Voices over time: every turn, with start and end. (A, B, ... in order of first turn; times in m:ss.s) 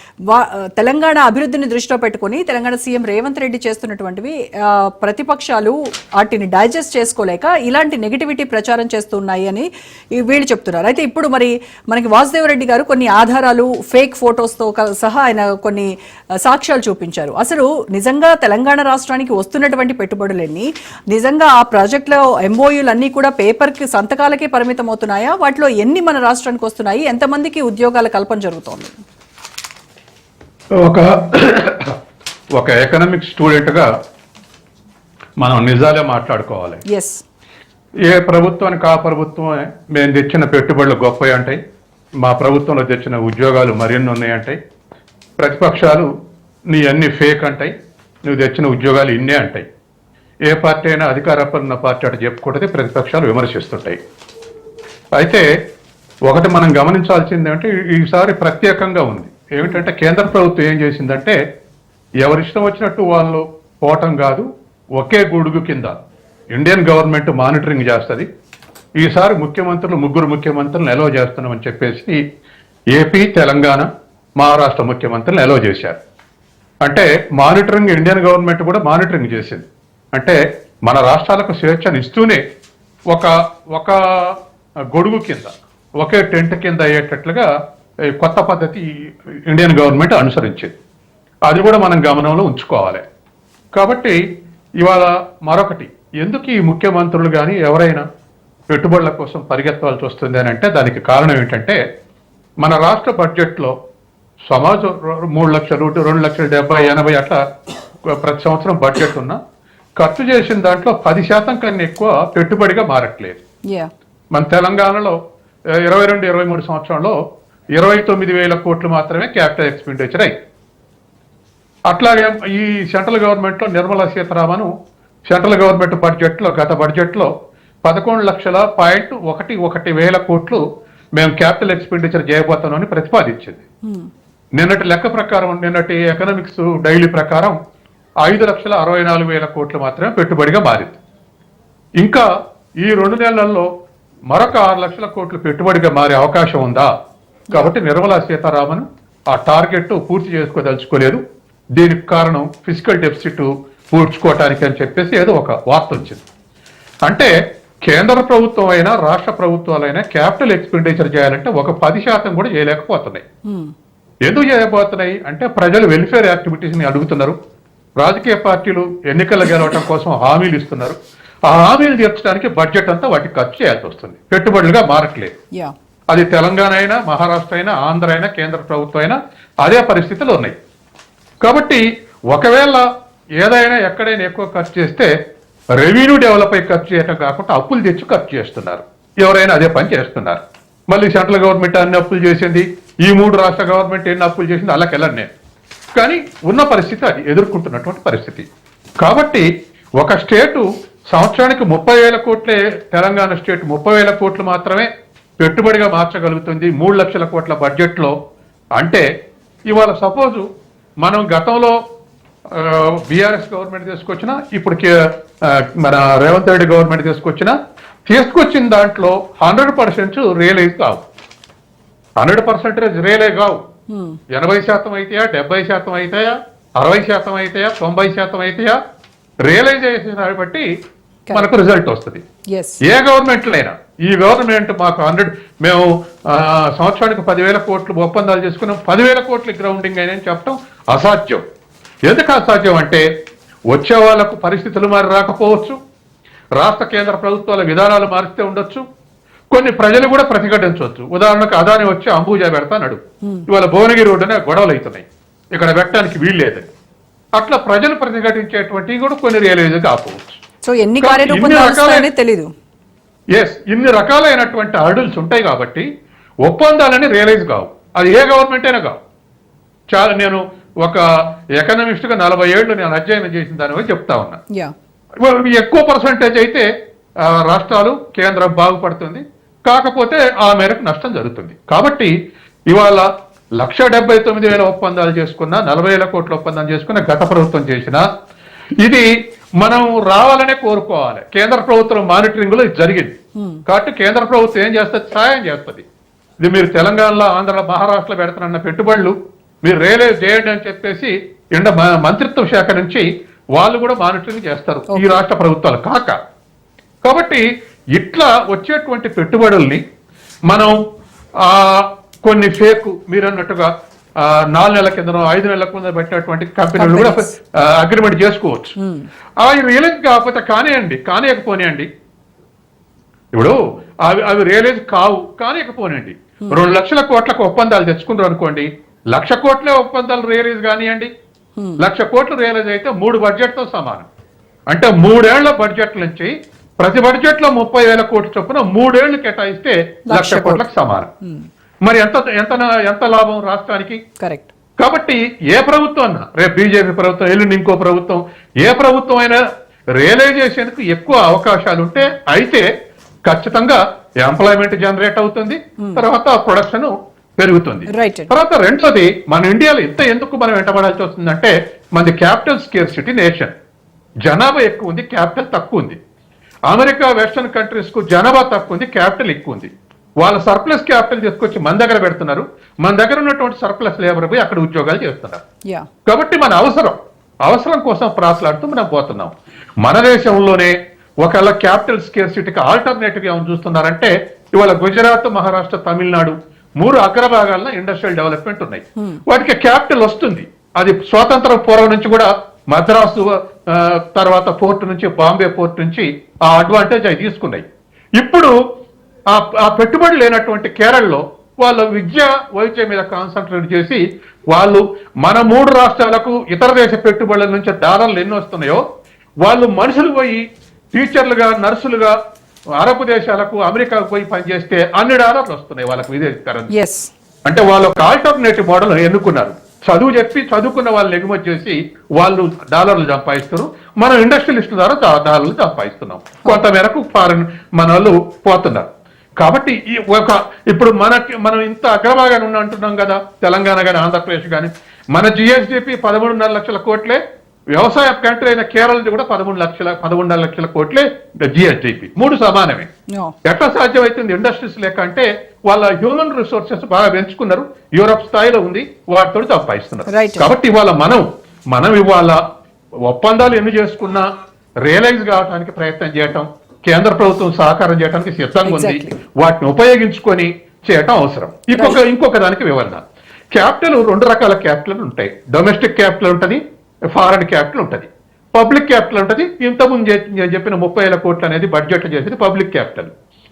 0:00.3-0:15.9 A
0:16.4-0:29.0 A
0:30.8-0:32.0 B
0:32.5-0:33.9 B
0:35.4-0:36.8 B
0:36.9-0:37.2 A
0:38.0-0:41.6 B
0:42.2-0:44.6 B
0:45.4-0:46.1 B
0:46.7-0:47.7 B
0:48.2-0:49.6 B
0:50.5-0:54.0 B
0:55.2-0:55.4 B
0:56.3-1:01.4 B
1:02.2-1:06.0 B
1:06.5-1:08.3 B
1:09.0-1:12.2 B
1:12.9-1:13.9 B
1:14.4-1:16.0 B
1:16.8-1:22.4 B
1:23.1-1:24.3 B
1:24.9-1:27.5 B
1:28.2-1:28.8 B
1:29.5-1:30.7 B
1:31.4-1:33.0 B
1:33.7-1:34.2 B
1:34.8-1:38.0 B
1:38.7-1:41.8 B
1:42.6-1:43.7 B
1:44.5-1:47.4 B
1:48.1-1:49.4 B
1:50.0-1:53.4 B
1:54.3-1:55.2 B
1:55.8-1:57.1 B
1:57.8-2:00.3 B
2:01.9-2:04.7 B
2:05.3-2:07.3 B
2:07.8-2:10.6 B
2:11.2-2:13.6 B
2:14.6-2:17.5 B
2:18.2-2:21.0 B
2:22.0-2:22.2 B
2:22.8-2:23.7 B
2:24.3-2:26.9 B
2:27.5-2:31.2 B
2:31.8-2:36.3 B
2:37.0-2:37.3 B
2:37.8-2:43.2 B
2:44.2-2:47.4 B
2:48.0-2:51.0 B
2:51.5-2:55.3 B
2:56.1-3:00.5 B
3:01.4-3:02.8 B
3:03.4-3:05.1 B
3:05.8-3:15.3 B
3:16.0-3:18.5 B
3:19.0-3:19.4 B
3:20.0-3:24.9 B
3:25.4-3:28.1 B
3:28.8-3:29.0 B
3:29.7-3:30.4 B
3:31.0-3:31.8 B
3:32.5-3:37.5 B
3:38.1-3:41.0 B
3:42.2-3:43.6 B
3:43.9-3:44.2 A
3:44.3-3:48.7 B
3:49.4-3:50.7 B
3:51.3-3:52.2 B
3:52.5-3:52.8 A
3:52.8-4:01.4 B
4:02.1-4:03.0 B
4:03.7-4:05.8 B
4:06.6-4:08.8 B
4:09.5-4:16.7 B
4:17.4-4:20.4 B
4:20.6-4:22.5 A
4:21.0-4:22.1 B
4:23.3-4:25.8 B
4:26.4-4:29.0 B
4:29.9-4:31.0 B
4:31.6-4:34.4 B
4:35.2-4:36.6 B
4:37.2-4:42.1 B
4:42.7-4:43.0 B
4:43.6-4:48.0 B
4:48.8-4:49.1 B
4:49.6-4:53.1 B
4:53.7-4:55.8 B
4:56.4-5:03.0 B
5:03.6-5:06.2 B
5:04.9-5:05.2 A
5:07.0-5:09.8 B
5:10.5-5:10.7 B
5:11.4-5:13.7 B
5:14.2-5:18.7 B
5:16.8-5:17.3 A
5:18.8-5:19.1 A
5:19.4-5:21.9 B
5:23.3-5:31.1 B
5:31.6-5:31.8 A
5:31.8-5:34.1 B
5:34.7-5:41.1 B
5:40.1-5:40.6 A
5:41.2-5:41.5 A
5:41.8-5:44.0 B
5:44.2-5:44.5 A
5:44.8-5:49.4 B
5:50.0-5:52.6 B
5:53.2-6:03.5 B
5:57.9-5:58.3 A
6:04.2-6:06.0 B
6:06.7-6:15.4 B
6:16.0-6:37.6 B
6:38.2-6:38.5 B
6:39.3-6:48.8 B
6:49.4-6:50.4 B
6:50.9-6:52.1 B
6:52.8-6:56.7 B
6:56.7-6:57.1 A
6:57.4-7:08.8 B
7:09.4-7:17.2 B
7:17.7-7:22.9 B
7:23.4-7:32.4 B
7:30.1-7:30.5 A
7:33.0-7:34.2 B
7:34.8-7:46.6 B
7:38.6-7:39.1 A
7:41.7-7:42.0 A
7:47.1-7:53.1 B